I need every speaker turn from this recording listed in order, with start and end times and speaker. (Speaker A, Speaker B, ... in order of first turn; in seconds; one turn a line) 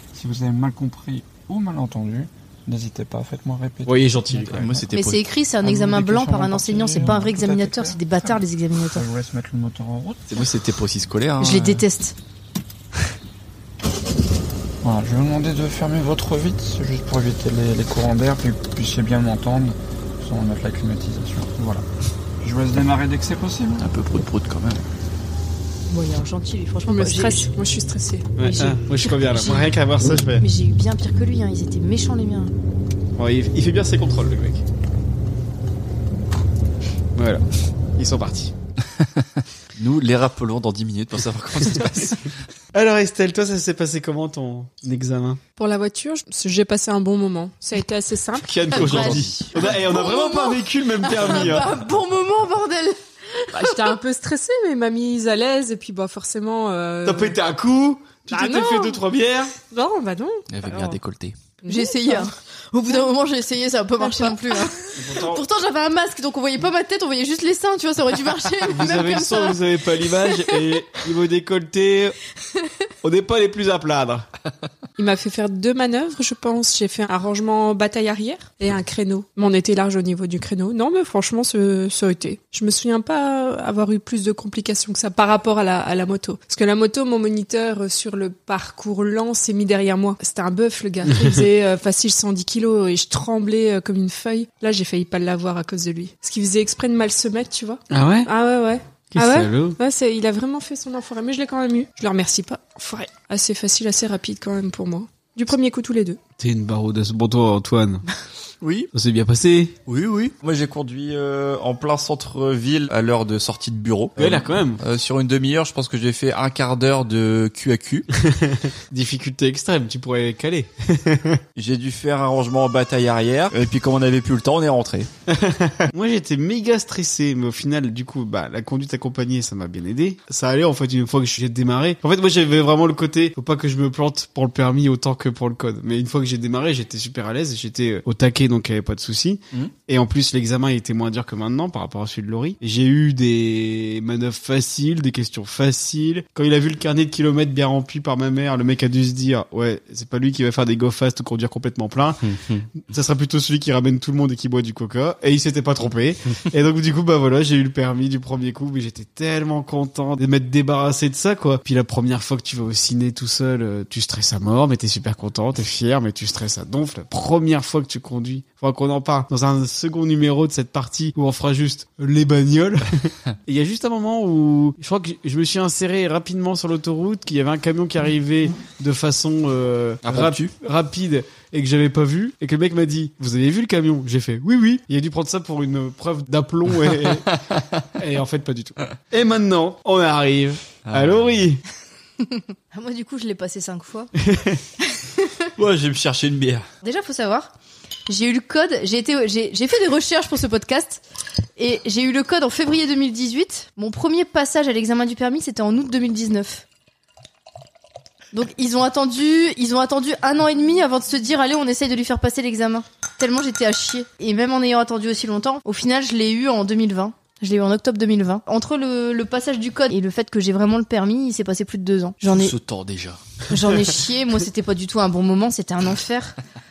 Speaker A: 0.1-4.9
Speaker B: 3.9-4.7
Speaker C: 4.5-5.3
Speaker D: 4.9-9.1
Speaker A: 5.6-10.3
Speaker C: 10.3-11.8
Speaker D: 11.4-12.2
Speaker A: 14.8-21.9
Speaker A: 22.4-23.9
Speaker C: 23.8-24.8
Speaker D: 25.9-27.5
Speaker E: 26.9-28.3
Speaker B: 28.4-30.4
Speaker D: 28.4-32.5
Speaker B: 33.2-34.6
Speaker B: 37.1-37.5
Speaker B: 38.0-38.5
Speaker C: 39.0-42.2
Speaker B: 42.7-45.4
Speaker E: 45.6-49.1
Speaker B: 48.4-51.8
Speaker D: 48.7-53.9
Speaker C: 48.8-49.5
Speaker E: 53.5-57.4
Speaker B: 57.0-59.6
Speaker E: 58.3-59.0
Speaker E: 59.7-61.0
Speaker C: 60.5-61.4
Speaker E: 61.6-62.3
Speaker D: 61.7-69.6
Speaker E: 64.1-64.3
Speaker B: 65.0-65.4
Speaker B: 68.7-72.2
Speaker B: 73.0-74.3
Speaker E: 75.0-106.2
Speaker B: 91.1-91.4
Speaker B: 97.9-98.3
Speaker B: 99.1-99.8
Speaker B: 106.4-108.0
Speaker C: 108.6-108.9
Speaker B: 108.9-109.8
Speaker C: 109.9-118.1
Speaker B: 114.2-114.8
Speaker B: 118.2-121.4
Speaker C: 121.6-125.1
Speaker B: 125.3-152.2
Speaker C: 152.2-152.7
Speaker B: 152.8-187.3
Speaker C: 180.1-180.5
Speaker C: 186.8-187.8
Speaker B: 188.0-191.6
Speaker C: 190.8-191.4
Speaker D: 192.7-194.1
Speaker B: 194.2-194.6
Speaker C: 195.6-196.7
Speaker D: 196.8-197.5
Speaker D: 198.1-201.0
Speaker D: 201.6-206.6
Speaker D: 208.3-222.6
Speaker C: 222.3-223.2
Speaker D: 223.5-226.3